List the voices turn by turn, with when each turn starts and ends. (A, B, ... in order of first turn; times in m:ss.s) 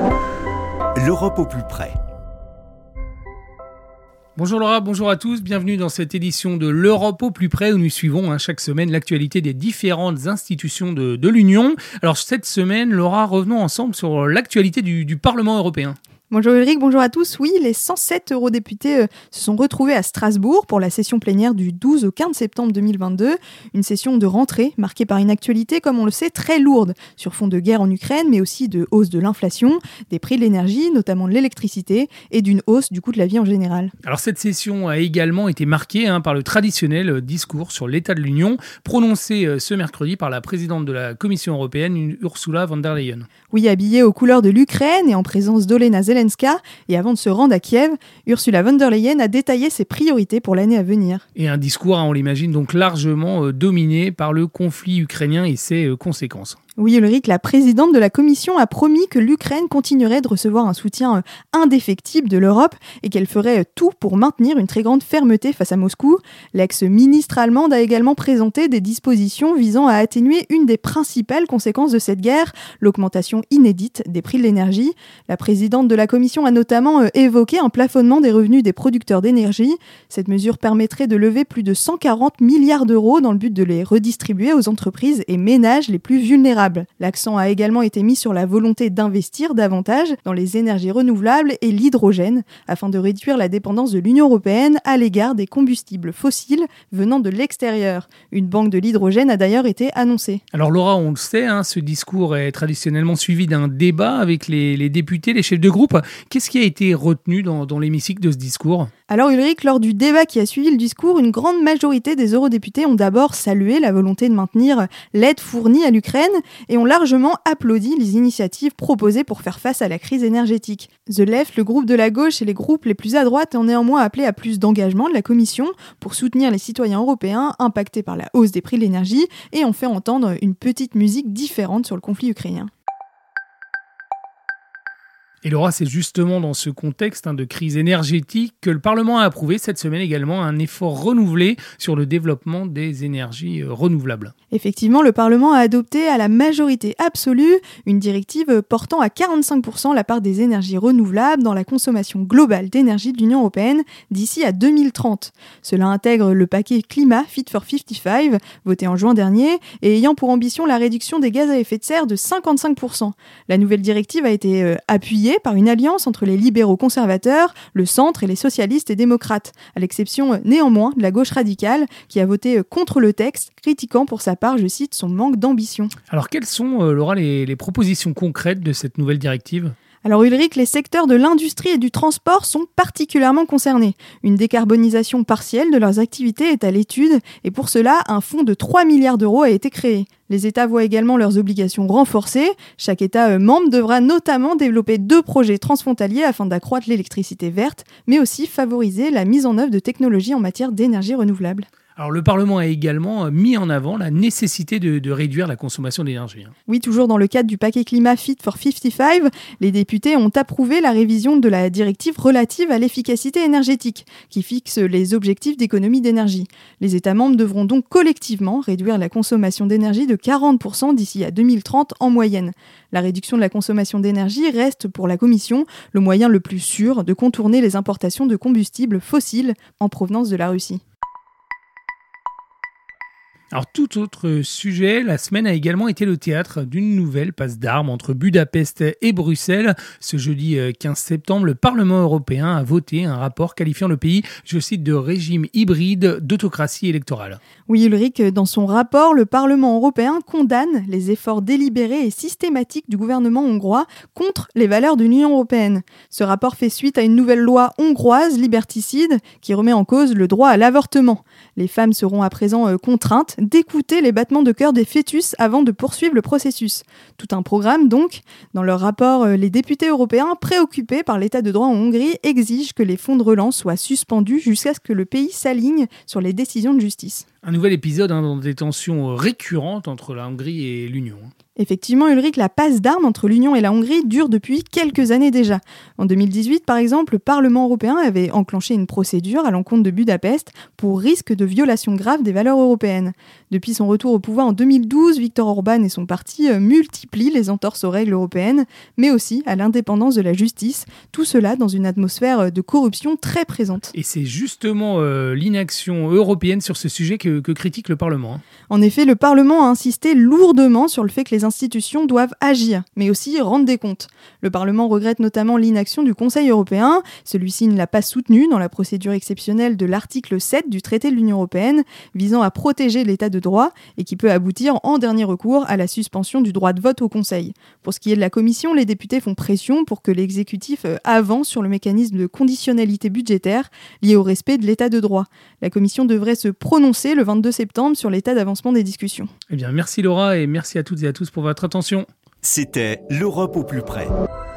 0:01.0-0:02.0 A
0:04.4-0:16.0 B
0:16.3-0:33.9 C
0:34.0-0:43.3 B
0:43.5-0:51.2 C
0:51.4-0:56.6 B
0:56.8-1:40.4 C
1:40.5-1:48.9 B
1:49.1-2:12.7 C
2:15.4-2:24.3 B
2:24.5-2:55.9 C
2:56.1-2:59.7 B
3:00.0-3:21.7 C
3:22.0-3:26.5 B
3:26.7-3:50.8 C
3:53.5-4:07.4 B
4:07.7-4:37.2 C
4:37.4-4:41.3 B
4:41.6-5:03.9 C
5:03.9-5:08.4 B
5:08.7-5:39.3 C
5:39.5-5:42.1 B
5:42.4-5:44.1 A